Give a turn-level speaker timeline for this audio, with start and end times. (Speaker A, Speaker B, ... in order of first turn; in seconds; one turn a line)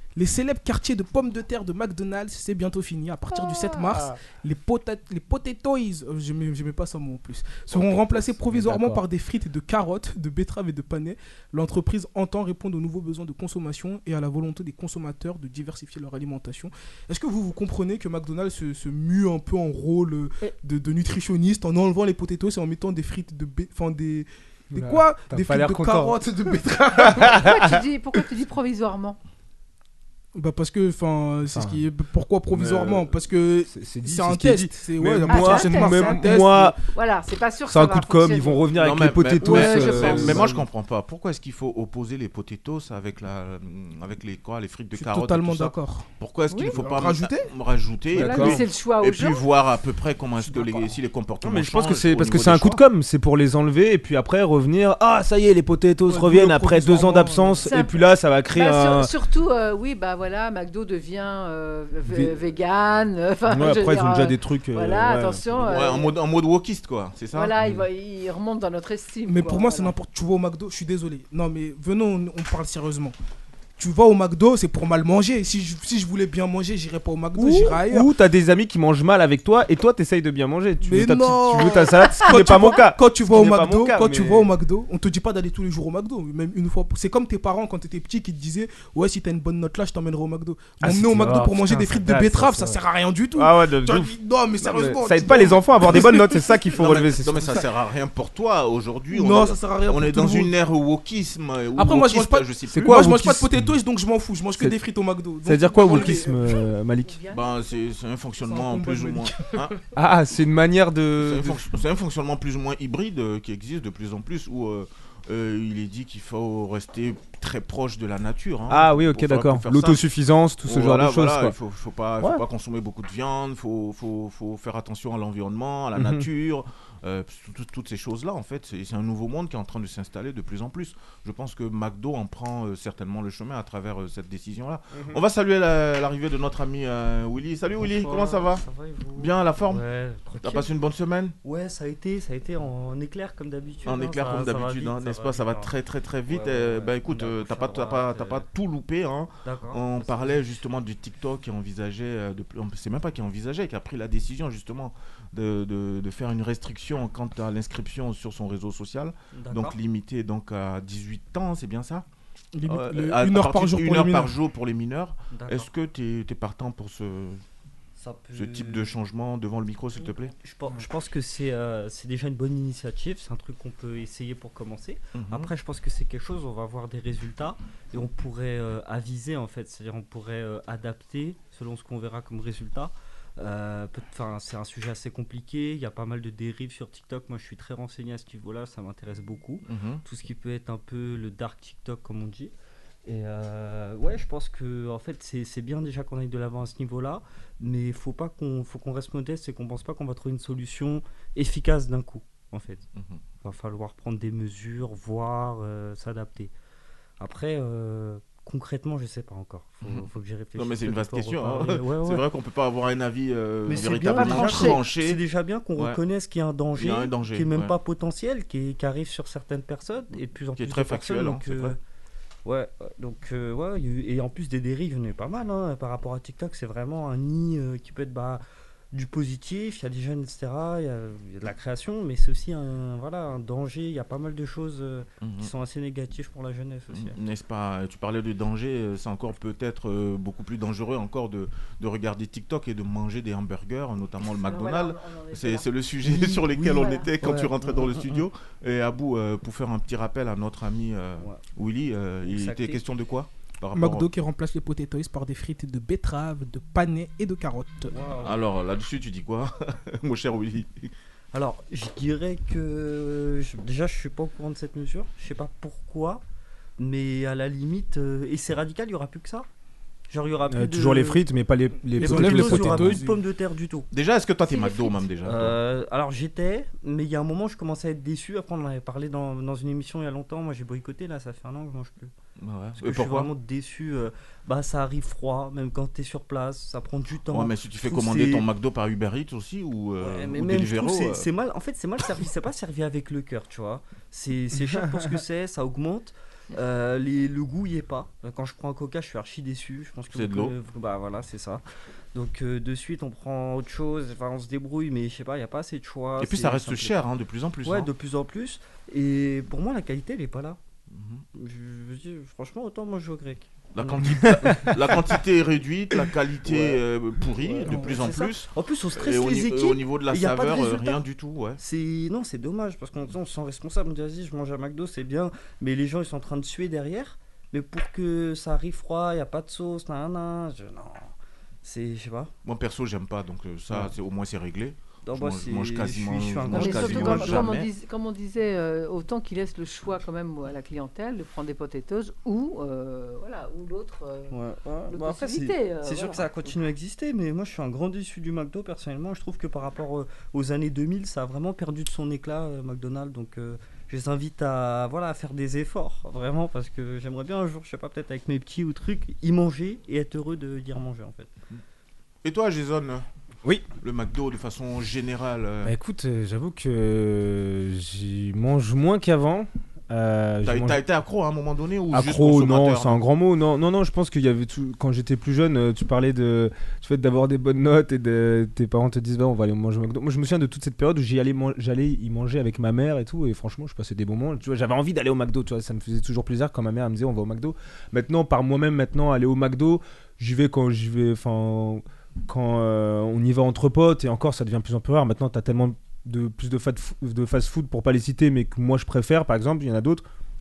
Speaker A: 0.1-27.6
Speaker B: 7.7-8.2
Speaker C: 8.5-9.0
Speaker C: 24.7-26.2
Speaker C: 27.0-27.7
Speaker D: 27.1-29.2
Speaker A: 30.3-36.8
Speaker C: 31.4-31.8
Speaker C: 32.5-33.2
Speaker C: 33.7-36.8
Speaker D: 35.3-38.6
Speaker C: 37.6-40.6
Speaker B: 38.7-52.8
Speaker D: 39.4-40.5
Speaker A: 45.0-46.1
Speaker D: 46.5-46.8
Speaker A: 46.7-47.5
Speaker C: 48.1-48.6
Speaker D: 48.1-49.4
Speaker A: 50.4-50.9
Speaker C: 51.4-59.1
Speaker A: 56.1-57.6
Speaker D: 57.6-57.9
Speaker D: 58.5-66.1
Speaker C: 62.0-62.4
Speaker C: 63.5-65.5
Speaker B: 65.6-67.5
Speaker D: 67.3-69.9
Speaker C: 67.6-67.8
Speaker A: 69.2-73.1
Speaker A: 73.8-78.1
Speaker C: 77.4-84.5
Speaker A: 80.8-96.4
Speaker C: 90.8-92.8
Speaker C: 93.3-97.6
Speaker B: 96.7-103.2
Speaker A: 99.1-100.5
Speaker A: 101.8-106.6
Speaker C: 102.8-103.7
Speaker C: 105.4-107.2
Speaker D: 107.0-107.8
Speaker B: 107.3-109.7
Speaker A: 108.4-109.8
Speaker C: 109.9-111.6
Speaker B: 111.2-120.0
Speaker C: 118.7-121.5
Speaker B: 120.6-138.6
Speaker C: 125.9-126.3
Speaker C: 134.9-135.2
Speaker E: 137.7-140.7
Speaker B: 139.2-139.8
Speaker B: 140.4-141.3
Speaker E: 141.4-145.7
Speaker B: 143.8-162.1
Speaker E: 146.3-148.4
Speaker E: 149.4-150.4
Speaker E: 159.3-159.8
Speaker A: 162.5-164.3
Speaker B: 162.7-167.4
Speaker E: 165.3-165.7
Speaker E: 168.0-168.9
Speaker B: 168.3-170.3
Speaker E: 169.9-192.5
Speaker B: 175.2-175.5
Speaker B: 189.7-190.0
Speaker E: 193.0-202.8
Speaker B: 202.9-203.2
Speaker E: 203.4-206.5
Speaker E: 207.2-212.2
Speaker B: 209.8-215.2
Speaker E: 213.7-221.8
Speaker D: 213.8-214.8
Speaker B: 216.8-217.7
Speaker B: 220.6-221.8
Speaker E: 222.4-237.2
Speaker B: 235.2-235.5
Speaker B: 236.9-254.1
Speaker D: 244.2-245.7
Speaker E: 246.0-248.3
Speaker D: 246.7-247.1
Speaker E: 252.2-252.8
Speaker A: 253.7-257.9
Speaker E: 257.9-258.4
Speaker B: 258.2-260.9
Speaker E: 261.3-266.2
Speaker E: 266.8-269.5
Speaker E: 270.1-271.2
Speaker C: 270.5-273.0
Speaker A: 271.9-273.2
Speaker E: 272.0-273.9
Speaker B: 273.9-275.6
Speaker D: 274.5-275.0
Speaker E: 275.2-282.1
Speaker B: 282.4-283.3
Speaker E: 282.8-288.5
Speaker B: 287.3-291.3
Speaker E: 290.0-301.6
Speaker C: 294.7-295.2
Speaker B: 300.1-300.5
Speaker E: 302.1-306.9
Speaker B: 306.2-307.9
Speaker E: 307.6-310.6
Speaker B: 310.9-311.2
Speaker E: 311.3-314.7
Speaker B: 313.7-321.6
Speaker C: 314.4-314.7
Speaker E: 316.4-321.0
Speaker A: 317.6-318.0
Speaker E: 321.6-331.1
Speaker E: 331.6-332.3
Speaker B: 332.4-337.7
Speaker E: 335.1-337.5
Speaker D: 336.5-344.3
Speaker E: 344.3-361.3
Speaker D: 344.9-346.6
Speaker B: 362.2-363.1
Speaker B: 363.8-365.7
Speaker C: 365.6-370.8
Speaker B: 370.4-373.0
Speaker C: 371.9-400.0